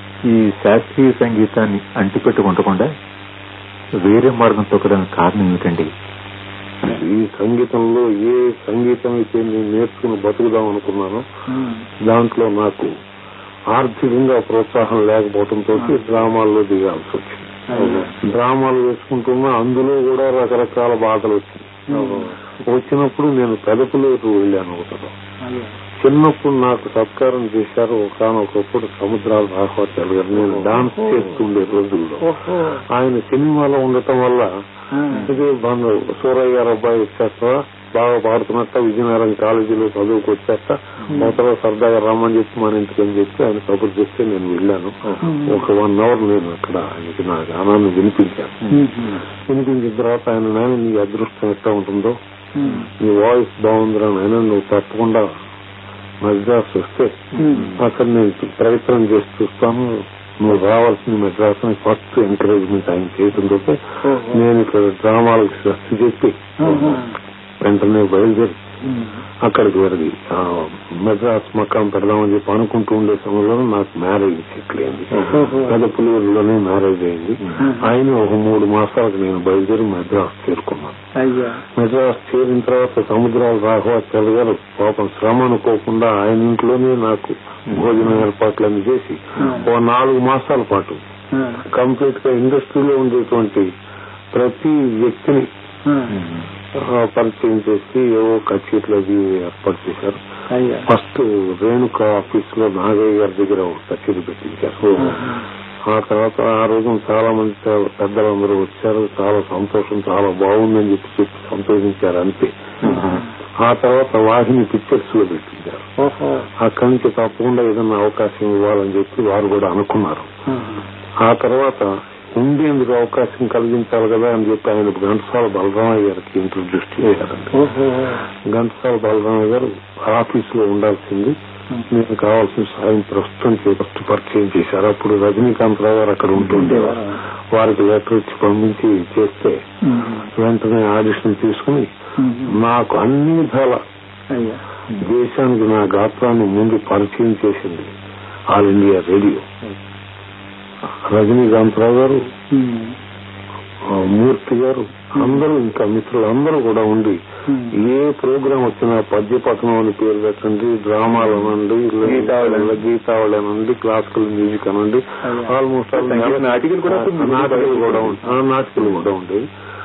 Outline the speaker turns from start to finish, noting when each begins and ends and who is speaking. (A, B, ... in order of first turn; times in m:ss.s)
0:00.3-0:02.9 A
0:04.0-0:05.9 A
0:06.8-0:11.2 B
0:11.5-0:11.8 C
0:12.1-0:12.9 B
0:13.7-0:22.1 B
0:15.8-0:16.1 C
0:17.7-0:18.1 C
0:17.8-0:18.1 A
0:21.9-0:22.3 C
0:22.6-0:25.1 B
0:25.4-0:25.8 C
0:26.0-0:34.5 B
0:32.2-0:32.8 C
0:35.0-0:35.3 C
0:35.2-0:48.6 B
0:45.2-0:45.6 C
0:48.7-0:49.2 C
0:49.5-0:52.2 B
0:52.6-0:52.9 C
0:53.0-0:55.3 B
0:56.2-1:07.1 B
0:57.4-0:57.7 C
0:57.4-0:57.7 A
1:04.0-1:04.4 C
1:06.6-1:07.1 C
1:07.6-1:08.6 B
1:09.5-1:21.0 B
1:15.2-1:15.5 A
1:15.3-1:15.8 C
1:17.6-1:17.9 C
1:21.2-1:21.6 C
1:21.8-1:31.0 B
1:29.4-1:29.7 C
1:31.4-1:31.6 C
1:31.6-1:33.7 B
1:34.3-1:35.5 B
1:35.9-1:36.2 C
1:36.1-1:36.4 A
1:36.8-1:40.2 B
1:40.5-1:40.9 C
1:40.9-1:45.2 B
1:44.9-1:45.2 A
1:45.0-1:45.4 C
1:45.9-1:52.5 B
1:52.8-1:53.3 A
1:52.8-1:53.2 C
1:53.6-1:55.8 B
1:56.0-1:56.5 C
1:56.6-2:00.3 B
2:00.5-2:00.8 C
2:01.2-2:07.5 B
2:07.5-2:08.2 C
2:08.5-2:11.4 B
2:11.9-2:19.6 B
2:16.6-2:17.2 C
2:19.9-2:20.3 C
2:20.3-2:21.9 B
2:22.2-2:22.6 C
2:22.4-2:23.8 B
2:24.3-2:24.6 C
2:24.9-2:27.9 B
2:28.5-2:29.5 B
2:31.1-2:32.2 B
2:32.5-2:33.0 C
2:33.9-2:37.2 B
2:37.5-2:37.8 C
2:37.7-2:49.4 B
2:41.2-2:41.5 A
2:42.1-2:42.8 A
2:45.2-2:45.6 C
2:46.0-2:48.2 A